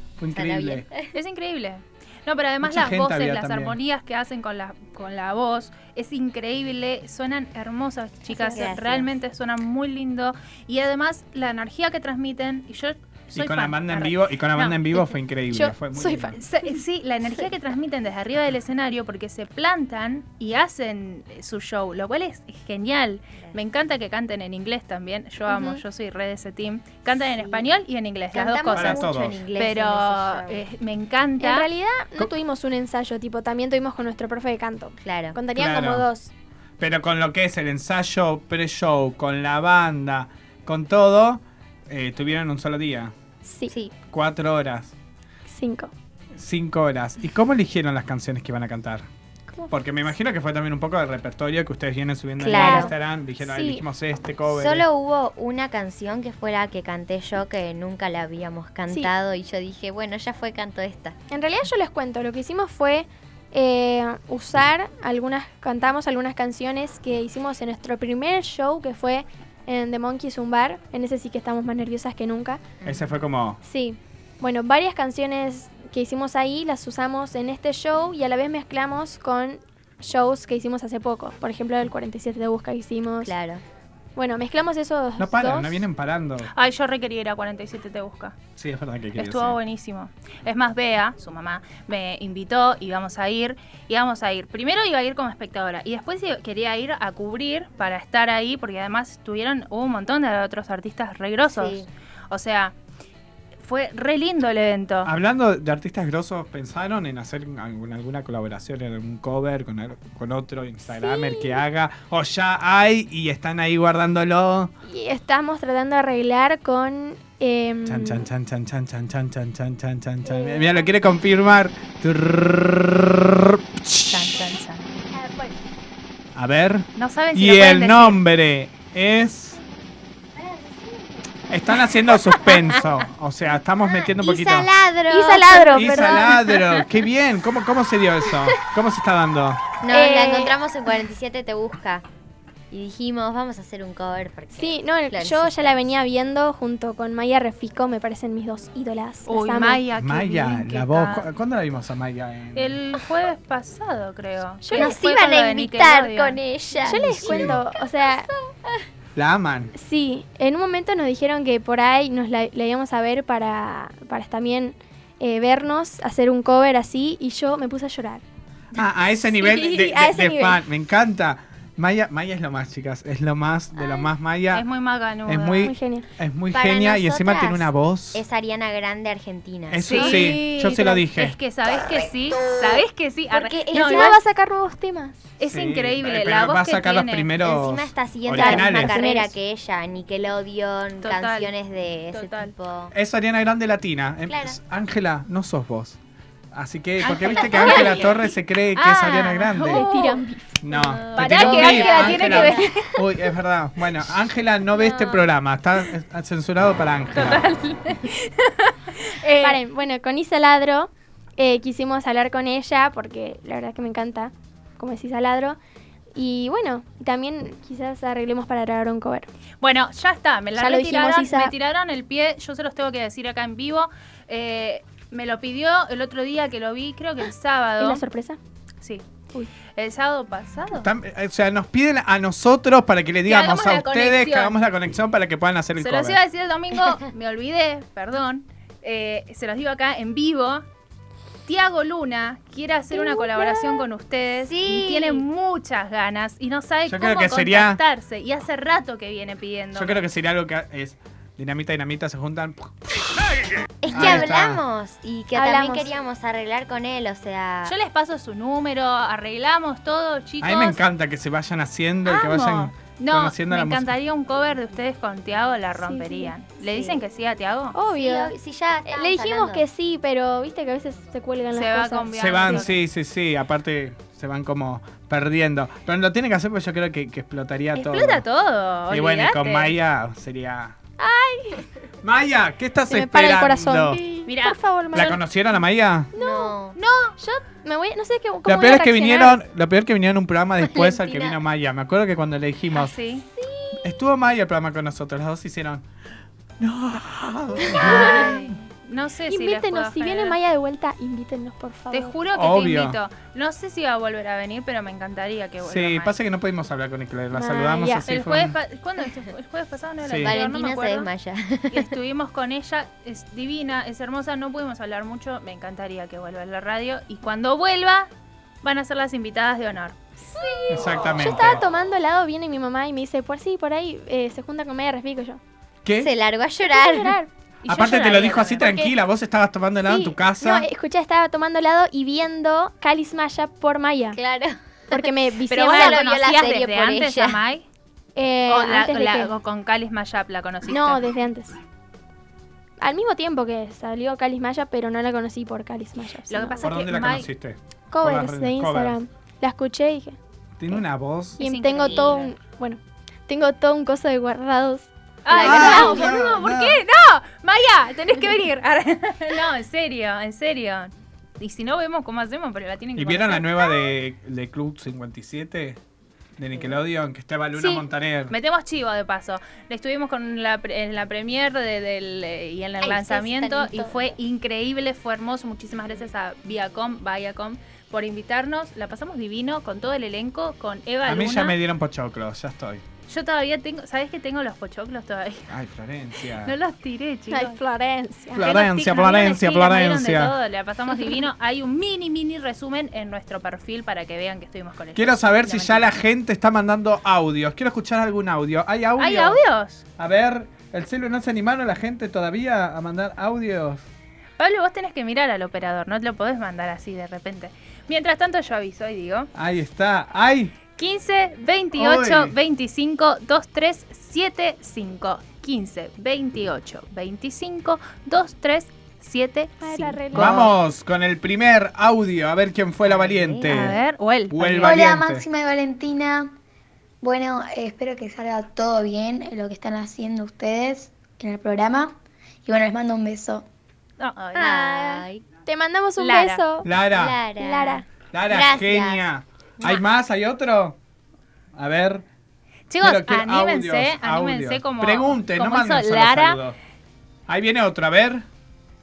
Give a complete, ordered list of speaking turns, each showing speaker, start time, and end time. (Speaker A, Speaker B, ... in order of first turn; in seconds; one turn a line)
Speaker A: 0.2-0.9
Speaker B: 0.3-1.1
Speaker C: 1.1-14.8
Speaker A: 2.6-3.8
Speaker D: 8.3-8.7
Speaker B: 8.4-9.1
Speaker A: 13.3-16.4
Speaker D: 15.5-16.4
Speaker C: 16.4-31.7
Speaker B: 27.2-27.7
Speaker B: 28.3-30.6
Speaker A: 28.7-29.4
Speaker D: 31.4-36.3
Speaker B: 35.0-35.4
Speaker A: 35.5-36.1
Speaker A: 36.8-43.1
Speaker D: 43.4-43.7
Speaker A: 44.1-44.9
Speaker D: 45.5-45.9
Speaker A: 46.3-49.1
Speaker A: 49.7-54.9
Speaker B: 52.4-52.9
Speaker D: 52.5-53.8
Speaker B: 54.5-61.2
Speaker D: 61.3-72.6
Speaker A: 72.8-73.6
Speaker D: 73.6-83.3
Speaker B: 83.2-83.6
Speaker D: 84.2-85.8
Speaker A: 85.2-86.5
Speaker C: 86.5-88.4
Speaker A: 88.6-89.6
Speaker C: 89.2-102.8
Speaker B: 101.5-101.9
Speaker C: 103.6-105.1
Speaker A: 105.0-114.7
Speaker D: 110.9-111.6
Speaker D: 114.8-118.3
Speaker A: 117.8-124.4
Speaker D: 120.3-120.6
Speaker C: 124.1-124.9
Speaker D: 125.1-125.5
Speaker A: 126.3-129.6
Speaker C: 127.0-128.2
Speaker A: 131.5-134.7
Speaker B: 134.1-136.3
Speaker D: 135.1-136.4
Speaker A: 135.7-139.6
Speaker B: 139.8-142.1
Speaker D: 139.9-140.6
Speaker B: 142.7-145.8
Speaker D: 144.6-149.8
Speaker C: 149.3-151.3
Speaker A: 150.0-152.8
Speaker C: 152.6-156.4
Speaker D: 154.6-155.0
Speaker B: 154.7-158.8
Speaker D: 156.8-158.3
Speaker A: 157.1-157.6
Speaker A: 159.2-159.7
Speaker D: 159.8-168.2
Speaker A: 168.7-174.7
Speaker D: 169.3-170.6
Speaker B: 173.8-174.1
Speaker C: 174.5-175.7
Speaker A: 175.3-178.2
Speaker D: 175.6-176.1
Speaker B: 176.5-180.3
Speaker A: 179.7-181.4
Speaker C: 179.9-184.2
Speaker B: 183.3-184.2
Speaker D: 183.7-185.2
Speaker C: 185.4-187.3
Speaker A: 185.4-189.0
Speaker B: 187.4-192.9
Speaker D: 188.3-189.3
Speaker C: 191.0-191.5
Speaker C: 192.1-192.5
Speaker A: 192.9-196.0
Speaker B: 194.3-194.6
Speaker A: 196.5-199.8
Speaker C: 197.0-200.2
Speaker D: 199.7-200.6
Speaker A: 200.6-207.5
Speaker C: 201.1-203.1
Speaker B: 201.2-202.7
Speaker C: 207.1-209.6
Speaker D: 209.4-215.6
Speaker D: 216.2-219.3
Speaker C: 219.6-228.0
Speaker D: 220.6-221.5
Speaker D: 227.8-228.4
Speaker C: 229.7-230.9
Speaker A: 230.7-236.2
Speaker C: 233.3-234.6
Speaker C: 235.8-240.7
Speaker C: 241.5-250.0
Speaker D: 242.9-243.8
Speaker B: 244.4-245.2
Speaker A: 246.9-247.8
Speaker A: 249.7-254.6
Speaker B: 253.8-257.8
Speaker D: 255.3-255.9
Speaker C: 257.6-260.8
Speaker A: 260.4-263.9
Speaker C: 262.1-267.8
Speaker D: 265.8-266.3
Speaker B: 266.6-267.0
Speaker D: 267.7-268.3
Speaker B: 267.9-269.6
Speaker D: 268.9-272.6
Speaker C: 271.5-272.7
Speaker A: 272.1-278.2
Speaker C: 277.8-279.7
Speaker A: 278.9-280.8
Speaker D: 281.0-281.6
Speaker A: 282.0-284.0
Speaker D: 282.9-285.2
Speaker C: 284.3-285.2
Speaker A: 284.9-286.1
Speaker D: 286.1-286.6
Speaker B: 286.2-286.8
Speaker C: 286.8-287.1
Speaker D: 287.2-289.4
Speaker A: 288.5-292.9
Speaker B: 290.7-291.4
Speaker C: 292.7-293.2
Speaker D: 293.4-293.9
Speaker A: 293.8-295.9
Speaker A: 296.6-298.4
Speaker D: 297.7-298.2
Speaker C: 297.7-300.4
Speaker D: 299.3-302.2
Speaker C: 301.9-306.1
Speaker A: 302.3-303.0
Speaker A: 305.6-308.6
Speaker D: 307.3-308.1
Speaker C: 308.1-311.1
Speaker A: 310.0-310.4
Speaker B: 310.2-311.9
Speaker C: 311.7-318.1
Speaker C: 318.6-320.0
Speaker D: 320.3-325.4
Speaker A: 320.7-321.6
Speaker A: 325.9-326.1
Speaker B: 326.0-327.2
Speaker D: 326.7-327.3
Speaker C: 327.6-328.7
Speaker A: 327.6-330.7
Speaker D: 328.6-328.9
Speaker D: 329.8-334.2
Speaker B: 334.1-335.0
Speaker D: 334.9-336.0
Speaker C: 335.5-337.6
Speaker B: 335.6-337.4
Speaker D: 338.2-339.3
Speaker C: 338.5-341.0
Speaker D: 340.7-341.6
Speaker D: 342.8-346.7
Speaker C: 346.3-347.3
Speaker A: 346.6-349.0
Speaker D: 347.9-350.2
Speaker A: 350.6-351.4
Speaker C: 351.4-352.3
Speaker D: 351.4-356.2
Speaker B: 351.9-352.2
Speaker C: 355.2-363.9
Speaker A: 355.3-356.8
Speaker A: 363.0-365.8
Speaker A: 366.4-368.4
Speaker C: 367.6-381.6
Speaker B: 372.8-374.1
Speaker A: 381.1-382.8
Speaker C: 383.1-385.5
Speaker A: 385.5-386.6
Speaker C: 386.3-387.6
Speaker D: 387.3-388.4
Speaker A: 388.3-390.4
Speaker C: 388.4-395.9
Speaker A: 394.9-399.4
Speaker C: 399.0-399.9
Speaker A: 400.0-403.8
Speaker C: 404.4-409.3
Speaker A: 409.4-410.6
Speaker C: 410.8-420.5
Speaker A: 411.8-412.4
Speaker D: 419.6-420.5
Speaker A: 420.1-425.3
Speaker B: 422.8-423.8
Speaker C: 423.4-424.9
Speaker E: 424.6-426.3
Speaker E: 427.0-433.5
Speaker C: 434.0-434.8
Speaker B: 434.4-435.2
Speaker D: 434.4-436.7
Speaker C: 436.0-436.4
Speaker A: 436.6-437.2
Speaker B: 436.9-439.1
Speaker D: 437.4-437.9
Speaker A: 438.1-440.8
Speaker A: 441.6-442.0
Speaker C: 442.7-446.4
Speaker A: 442.8-446.6
Speaker A: 447.3-448.3